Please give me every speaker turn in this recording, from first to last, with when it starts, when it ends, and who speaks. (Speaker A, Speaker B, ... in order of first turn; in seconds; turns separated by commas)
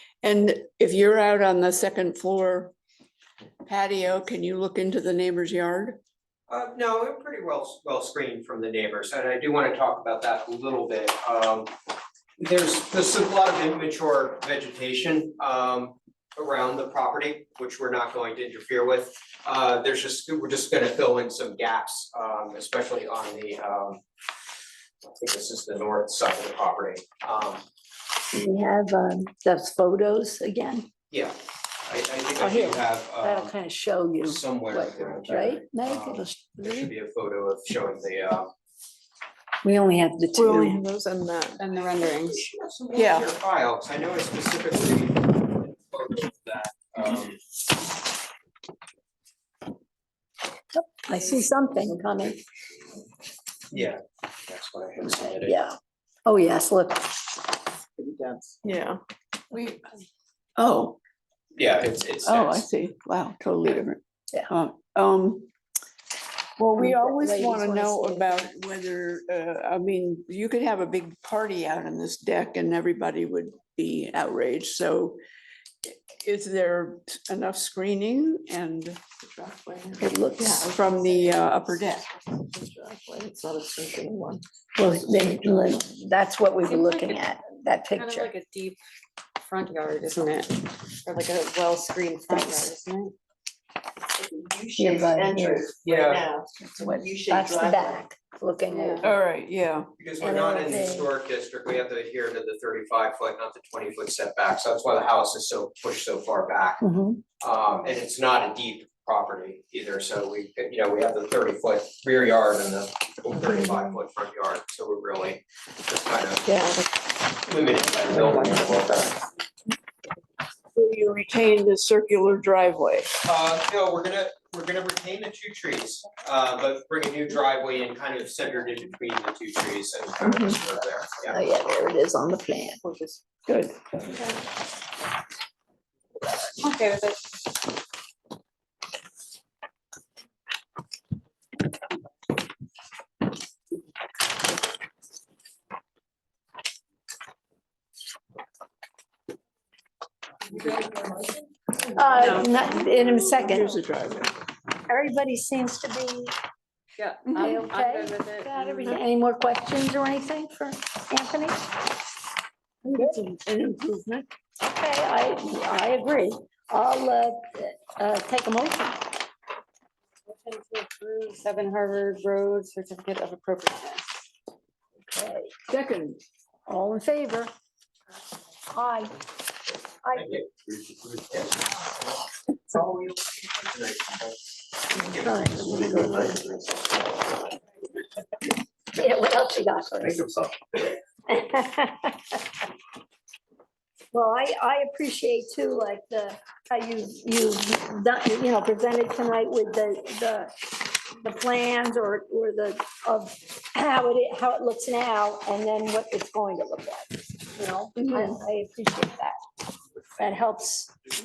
Speaker A: 0.2-2.7, Speaker A: 3.6-6.0, Speaker B: 6.5-11.7, Speaker B: 12.4-24.0, Speaker B: 25.2-27.6, Speaker C: 28.3-30.9, Speaker B: 31.1-33.5, Speaker C: 32.4-36.9, Speaker B: 34.2-38.5, Speaker C: 39.6-40.8, Speaker D: 40.4-41.6, Speaker E: 41.6-42.4, Speaker B: 42.0-47.4, Speaker A: 43.0-43.3, Speaker C: 50.8-52.4, Speaker B: 53.7-55.6, Speaker C: 55.4-57.3, Speaker D: 58.0-59.0, Speaker A: 59.5-60.0, Speaker A: 60.6-61.0, Speaker B: 61.6-62.7, Speaker A: 62.2-65.5, Speaker A: 66.6-75.2, Speaker C: 66.8-68.4, Speaker A: 75.8-79.0, Speaker D: 79.2-84.4, Speaker C: 80.0-80.6, Speaker A: 80.6-82.1, Speaker C: 84.8-88.3, Speaker E: 86.6-87.2, Speaker E: 88.0-88.8, Speaker E: 89.4-93.2, Speaker C: 92.3-92.7, Speaker D: 94.2-98.0, Speaker C: 94.8-95.7, Speaker B: 95.8-96.3, Speaker C: 96.6-99.1, Speaker E: 98.7-99.1, Speaker A: 99.0-99.9, Speaker B: 100.0-106.8, Speaker C: 100.2-101.1, Speaker C: 106.8-107.2, Speaker B: 107.4-116.5, Speaker A: 116.5-116.8, Speaker B: 117.5-119.1, Speaker D: 118.4-118.7, Speaker A: 120.7-123.2, Speaker B: 123.2-131.4, Speaker C: 131.3-132.8, Speaker E: 132.9-133.1, Speaker A: 133.5-134.2, Speaker E: 136.6-137.2, Speaker C: 151.8-153.8, Speaker A: 152.1-154.5, Speaker C: 154.9-156.3, Speaker E: 157.0-158.9, Speaker C: 157.4-161.6, Speaker C: 162.8-163.7, Speaker A: 162.9-164.2, Speaker C: 164.6-169.1, Speaker E: 170.3-174.1, Speaker C: 175.0-175.5, Speaker A: 175.7-176.2, Speaker C: 176.7-177.5, Speaker C: 178.7-179.1, Speaker C: 180.0-180.4, Speaker B: 180.1-180.5, Speaker B: 185.0-185.3, Speaker C: 185.1-186.4, Speaker C: 188.9-190.2, Speaker C: 191.3-192.1, Speaker C: 194.1-209.4, Speaker A: 208.0-208.3, Speaker C: 210.2-210.9